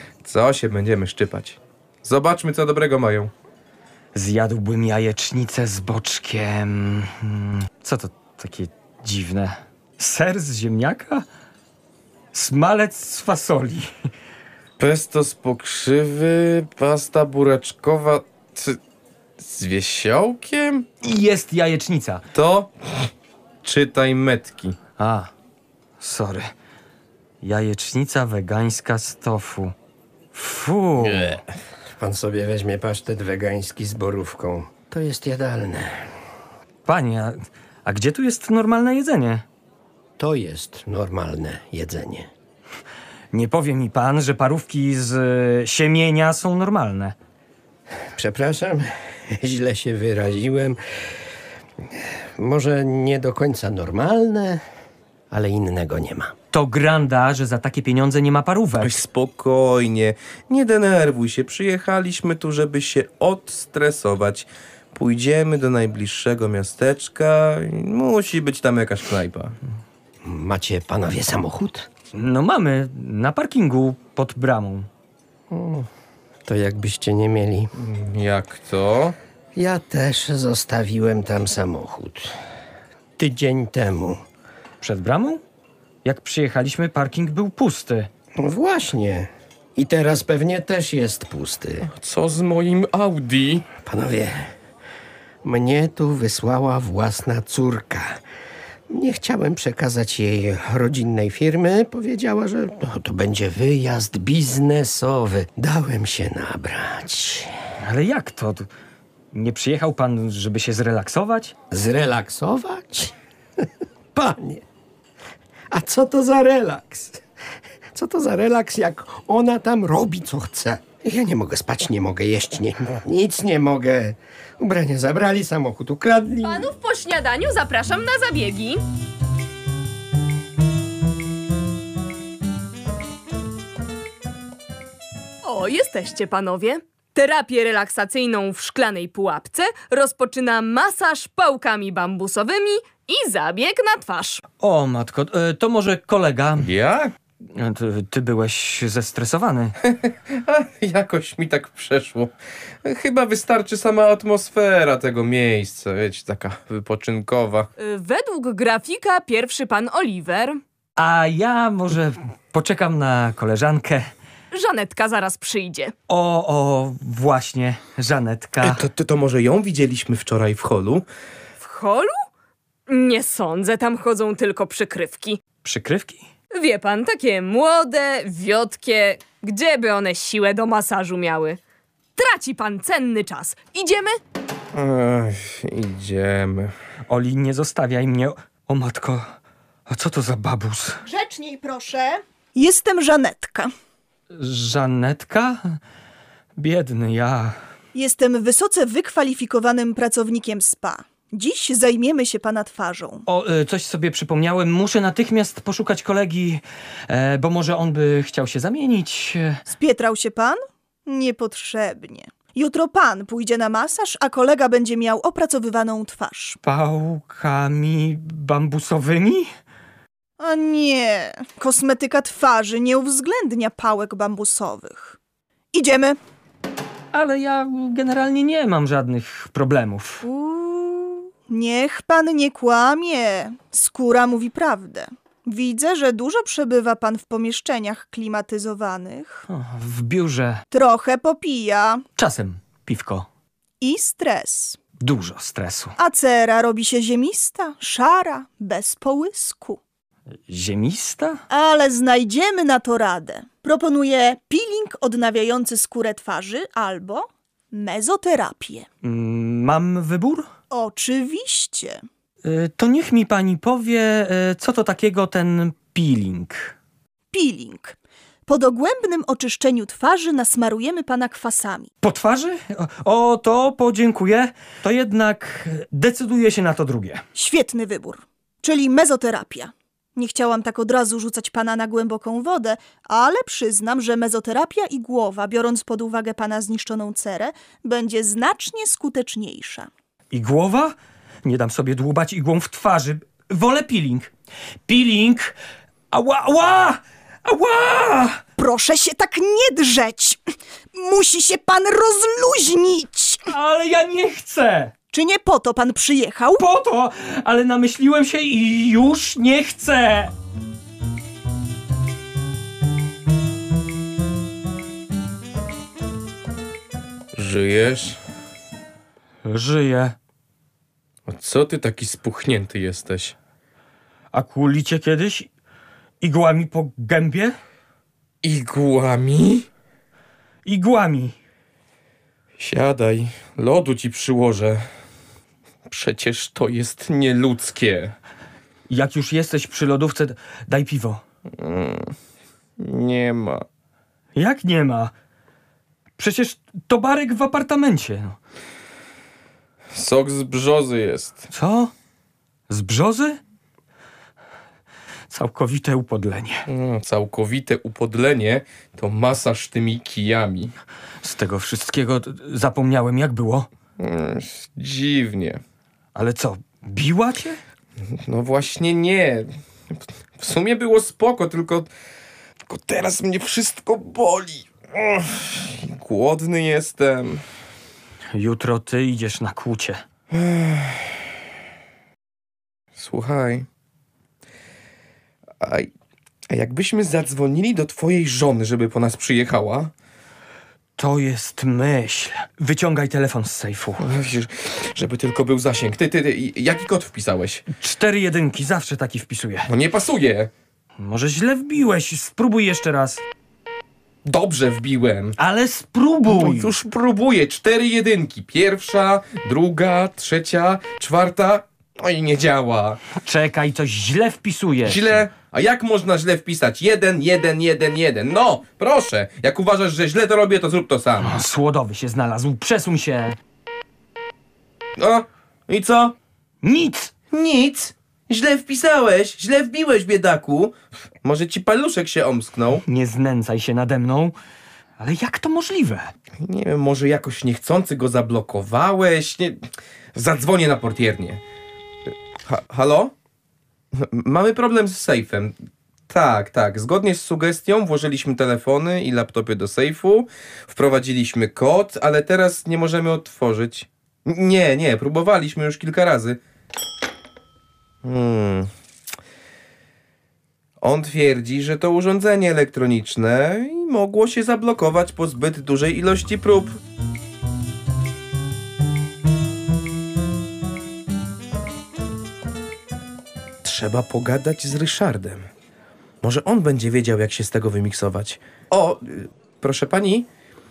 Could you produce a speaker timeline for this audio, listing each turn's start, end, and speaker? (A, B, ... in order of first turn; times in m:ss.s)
0:00.2-0:03.3 A
0:04.1-0:11.2 B
0:12.3-0:13.9 B
0:14.8-0:18.8 A
0:19.4-0:20.8 A
0:21.0-0:22.2 B
0:22.3-0:23.1 A
0:23.6-0:24.8 A
0:25.0-0:25.3 B
0:26.0-0:26.5 B
0:27.4-0:29.7 B
0:30.3-0:31.4 B
0:31.0-0:31.4 A
0:32.0-0:36.1 C
0:36.8-0:39.4 B
0:40.2-0:42.3 C
0:43.3-0:47.2 B
0:48.1-0:50.8 C
0:51.9-0:54.6 C
0:55.3-0:56.3 C
0:56.5-0:59.0 B
0:58.8-1:09.6 A
1:10.2-1:11.9 C
1:12.1-1:14.9 B
1:15.5-1:15.9 C
1:16.4-1:17.7 C
1:17.8-1:19.2 A
1:19.5-1:22.3 C
1:23.2-1:24.2 C
1:24.8-1:25.4 B
1:26.0-1:28.1 B
1:28.4-1:31.9 C
1:31.8-1:33.7 A
1:33.8-1:34.5 C
1:35.4-1:38.2 C
1:38.9-1:47.5 C
1:47.8-1:48.7 B
1:49.3-1:51.5 B
1:51.7-1:54.6 C
1:55.7-1:57.2 C
1:57.9-2:06.7 C
2:06.4-2:08.8 D
2:15.4-2:24.4 D
2:24.6-2:26.7 B
2:26.6-2:27.1 A
2:27.5-2:29.8 B
2:29.9-2:32.3 A
2:32.8-2:37.7 A
2:37.8-2:40.6 D
2:41.0-2:44.1 B
2:44.5-2:45.9 D
2:46.1-2:48.8 B
2:48.6-2:51.0 A
2:51.6-2:52.2 D
2:52.9-2:55.4 D
2:55.6-2:56.3 B
2:56.5-3:01.6 D
3:02.2-3:04.2 D
3:04.7-3:06.7 A
3:07.1-3:09.3 B
3:09.9-3:11.0 B
3:11.0-3:13.7 E
3:14.3-3:15.8 B
3:16.6-3:17.6 B
3:17.9-3:23.2 E
3:23.2-3:29.6 B
3:29.7-3:36.6 E
3:36.6-3:39.5 B
3:40.4-3:45.2 E
3:45.7-3:46.2 E
3:47.1-3:50.2 B
3:50.2-3:59.4 E
3:59.5-4:00.6 B
4:00.7-4:02.0 E
4:02.2-4:03.3 B
4:03.8-4:04.8 E
4:05.0-4:06.0 B
4:06.0-4:09.8 E
4:10.5-4:11.4 B
4:11.5-4:18.9 E
4:19.0-4:20.5 B
4:20.7-4:22.0 E
4:22.4-4:26.7 B
4:27.3-4:28.0 E
4:28.5-4:31.9 E
4:32.0-4:37.2 B
4:37.3-4:49.9 E
4:50.3-4:54.3 B
4:54.9-4:55.6 B
4:56.1-4:58.4 B
4:58.6-5:00.4 E
5:00.9-5:03.4 E
5:03.5-5:04.9 B
5:05.1-5:06.6 E
5:06.6-5:10.3 B
5:17.3-5:18.2 A
5:19.4-5:20.2 B
5:21.3-5:23.3 A
5:24.3-5:25.5 B
5:26.2-5:27.6 B
5:28.4-5:29.7 A
5:30.6-5:31.3 B
5:32.6-5:34.8 A
5:35.9-5:38.1 A
5:38.9-5:41.2 B
5:41.6-5:42.1 A
5:42.8-5:43.6 A
5:44.3-5:45.1 B
5:46.2-5:48.4 B
5:49.9-5:51.5 A
5:51.5-5:51.9 B
5:52.7-5:53.4 B
5:55.3-5:56.6 B
5:56.7-6:00.7 A
6:01.2-6:03.7 B
6:04.0-6:05.6 A
6:06.1-6:07.6 B
6:08.1-6:09.5 A
6:10.4-6:11.9 A
6:12.7-6:17.4 A
6:18.3-6:20.0 B
6:20.3-6:21.2 A
6:23.0-6:23.7 A
6:25.6-6:25.9 A
6:26.5-6:29.9 A
6:31.0-6:34.1 B
6:34.0-6:37.6 A
6:37.7-6:39.7 B
6:39.7-6:40.5 A
6:41.0-6:43.2 B
6:44.2-6:45.3 A
6:45.4-6:46.7 B
6:46.3-6:53.0 A
6:53.2-6:55.2 B
6:54.8-7:01.4 A
7:01.2-7:03.4 B
7:05.0-7:06.1 A
7:06.6-7:07.1 B
7:07.3-7:12.8 A
7:12.8-7:14.3 B
7:15.0-7:16.1 B
7:16.4-7:19.6 A
7:20.1-7:21.4 A
7:22.4-7:23.1 A
7:23.9-7:25.6 A
7:26.1-7:36.4 A
7:38.0-7:38.7 A
7:40.8-7:46.8 A
7:53.6-7:55.5 A
7:56.2-8:00.3 A